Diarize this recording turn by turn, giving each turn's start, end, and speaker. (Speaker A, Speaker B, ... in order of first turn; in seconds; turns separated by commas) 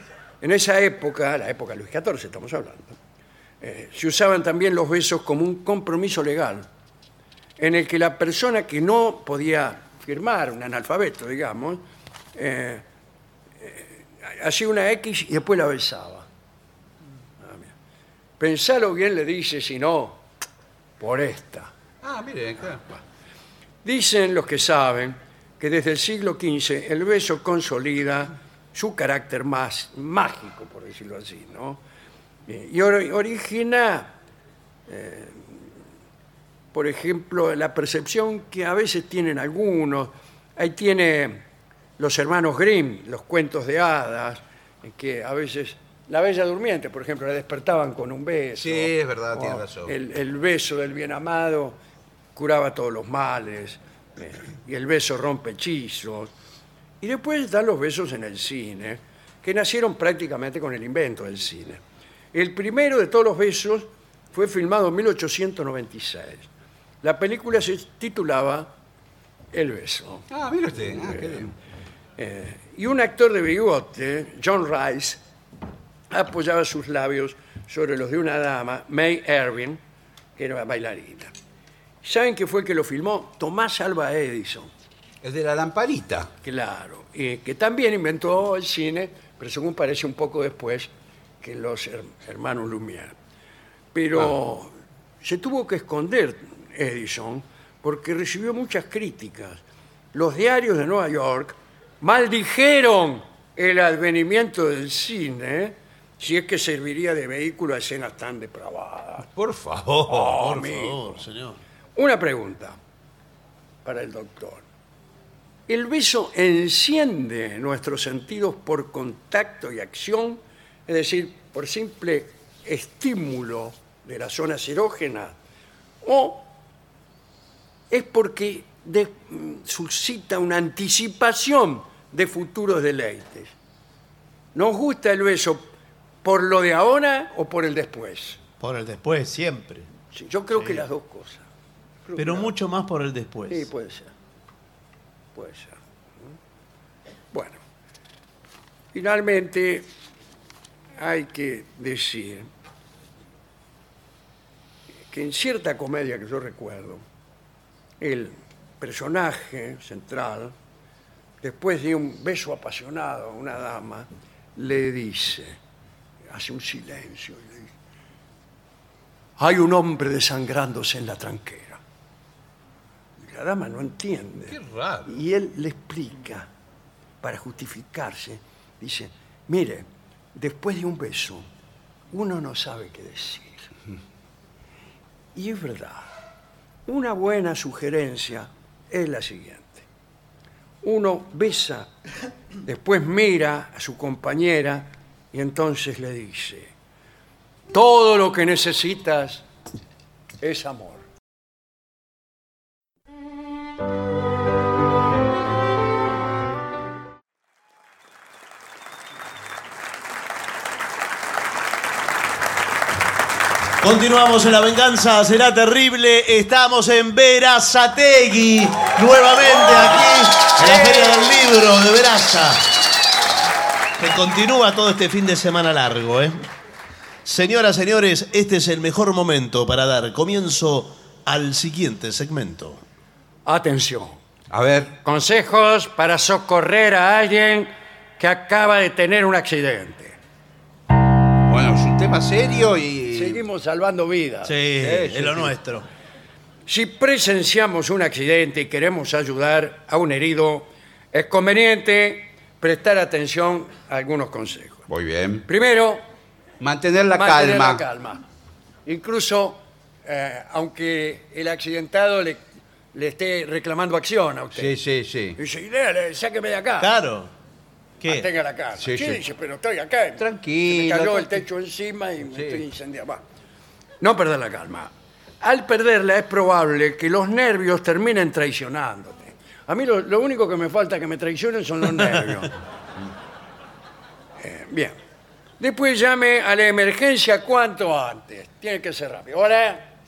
Speaker A: 0.4-3.0, Speaker A: 3.6-6.7, Speaker A: 7.6-11.8, Speaker A: 12.3-12.8, Speaker A: 13.6-16.3, Speaker A: 17.4-17.7, Speaker A: 18.4-20.2, Speaker A: 21.0-21.7, Speaker B: 22.0-22.8, Speaker A: 23.8-31.8, Speaker A: 32.5-34.1, Speaker A: 34.9-35.6, Speaker A: 36.7-41.4, Speaker A: 42.0-51.8, Speaker B: 48.6-49.9, Speaker A: 52.3-56.3, Speaker A: 57.0-61.8, Speaker A: 62.3-66.5, Speaker A: 67.0-68.7, Speaker A: 69.5-70.3, Speaker B: 70.3-71.5, Speaker A: 71.0-71.5, Speaker A: 72.2-75.2, Speaker A: 76.1-79.8, Speaker A: 80.4-81.3, Speaker A: 82.0-84.7, Speaker B: 85.2-86.3, Speaker A: 86.4-93.1, Speaker A: 93.9-109.3, Speaker B: 109.3-110.4, Speaker A: 110.1-111.2, Speaker C: 110.3-111.6, Speaker A: 112.0-112.8, Speaker A: 113.8-114.6, Speaker A: 115.7-125.4, Speaker A: 126.0-126.5, Speaker A: 127.9-133.5, Speaker A: 134.5-135.7, Speaker A: 136.2-138.4, Speaker C: 138.6-139.9, Speaker A: 140.1-141.4, Speaker A: 142.0-142.5, Speaker C: 142.2-143.7, Speaker A: 143.5-144.1, Speaker A: 145.3-145.8, Speaker A: 147.3-147.6, Speaker A: 148.9-149.9, Speaker A: 151.0-152.5, Speaker A: 155.1-157.0, Speaker A: 158.0-160.5, Speaker A: 161.4-165.6, Speaker A: 166.3-167.7, Speaker A: 169.4-171.8, Speaker A: 173.2-176.5, Speaker B: 174.5-175.1, Speaker A: 177.2-181.4, Speaker A: 182.1-183.7, Speaker A: 185.3-186.1, Speaker A: 186.8-189.8, Speaker A: 190.8-191.9, Speaker A: 192.6-196.7, Speaker A: 197.7-199.4, Speaker A: 200.4-201.1, Speaker C: 213.8-222.7, Speaker A: 220.6-221.2, Speaker C: 224.0-226.4, Speaker C: 227.2-232.8, Speaker A: 233.4-234.2, Speaker B: 234.5-235.0, Speaker A: 235.0-240.2, Speaker B: 241.5-243.4, Speaker A: 243.1-244.6, Speaker C: 244.4-245.8, Speaker B: 244.8-245.5, Speaker A: 246.7-254.8, Speaker B: 254.9-255.4, Speaker A: 255.5-256.0, Speaker B: 256.6-257.8, Speaker A: 257.1-258.2, Speaker A: 258.9-264.7, Speaker B: 264.6-265.4, Speaker A: 265.4-266.9, Speaker C: 266.8-267.3, Speaker C: 268.0-268.3, Speaker A: 268.0-273.2, Speaker B: 268.8-269.2, Speaker B: 270.2-271.4, Speaker B: 272.3-272.6, Speaker A: 274.0-282.5, Speaker A: 284.4-284.9, Speaker A: 285.6-289.9